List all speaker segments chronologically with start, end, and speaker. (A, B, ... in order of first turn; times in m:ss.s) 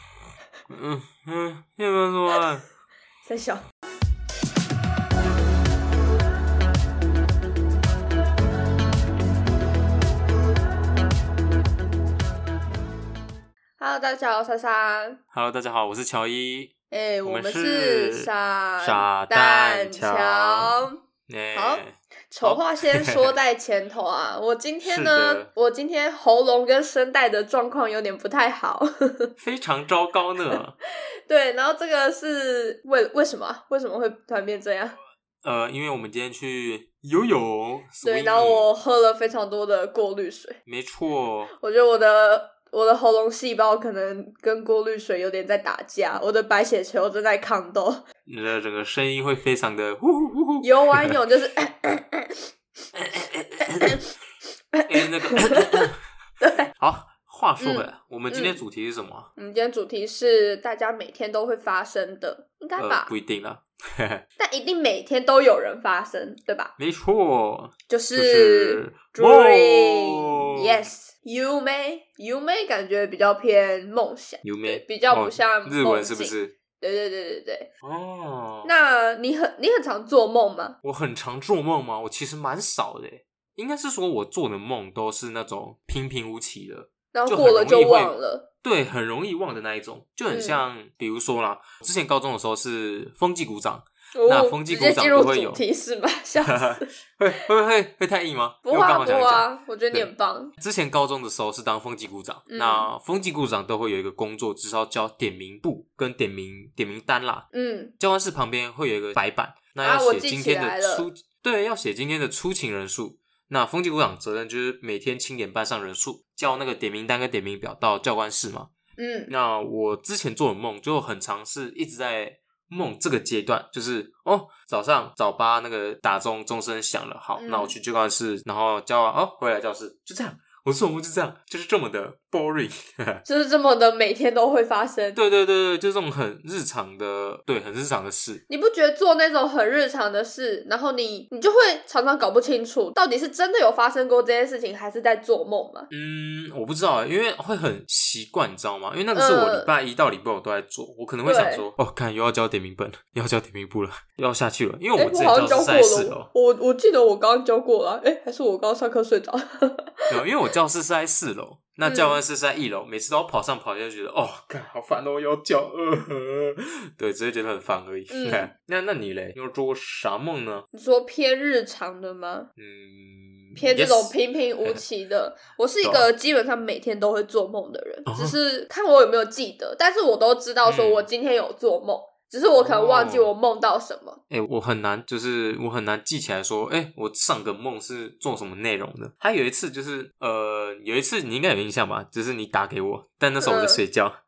0:00.7-0:02.7 A
0:03.2-0:03.6 B
0:13.8-0:15.2 B
0:15.3-0:16.7 A
0:16.9-0:21.0 B
0:17.2-0:23.3 A
0:21.5-0:29.3 B
0:24.8-0:25.5 A
0:29.4-0:30.7 A
0:31.3-0:35.0 B
0:35.4-0:38.7 A
0:38.0-0:40.6 B
0:40.6-0:41.5 A
0:41.5-0:48.0 B
0:48.3-0:51.1 A
0:50.6-0:52.4 B
0:52.9-0:54.0 A
0:53.8-0:54.0 B
0:54.7-0:55.9 B
0:54.8-0:56.0 A
0:56.4-0:56.7 B
0:56.7-0:59.3 A
0:57.6-0:58.6 B
0:59.4-1:03.1 B
1:02.8-1:04.2 A
1:04.4-1:06.7 B
1:06.8-1:10.8 A
1:07.9-1:17.7 B
1:14.4-1:16.5 A
1:17.8-1:18.7 A
1:18.6-1:20.8 B
1:20.8-1:35.6 A
1:27.1-1:28.5 B
1:30.3-1:30.6 B
1:34.1-1:36.9 B
1:36.4-1:47.5 A
1:38.6-1:40.5 B
1:42.5-1:42.9 B
1:47.5-1:47.9 B
1:48.0-1:58.7 A
1:49.8-1:51.0 B
1:59.0-1:59.3 B
1:59.3-2:13.2 A
2:07.4-2:07.7 B
2:13.2-2:15.2 B
2:15.1-2:18.4 A
2:18.5-2:25.9 B
2:25.9-2:36.3 A
2:29.1-2:29.7 B
2:31.2-2:31.6 B
2:35.0-2:40.1 B
2:40.1-2:50.6 A
2:41.8-2:42.2 B
2:48.1-2:48.5 B
2:50.7-2:52.5 B
2:52.6-2:54.8 A
2:53.6-3:04.2 B
2:55.8-2:56.1 A
2:58.0-2:58.4 A
3:00.6-3:01.1 A
3:02.6-3:03.3 A
3:04.3-3:14.2 A
3:13.4-3:13.8 B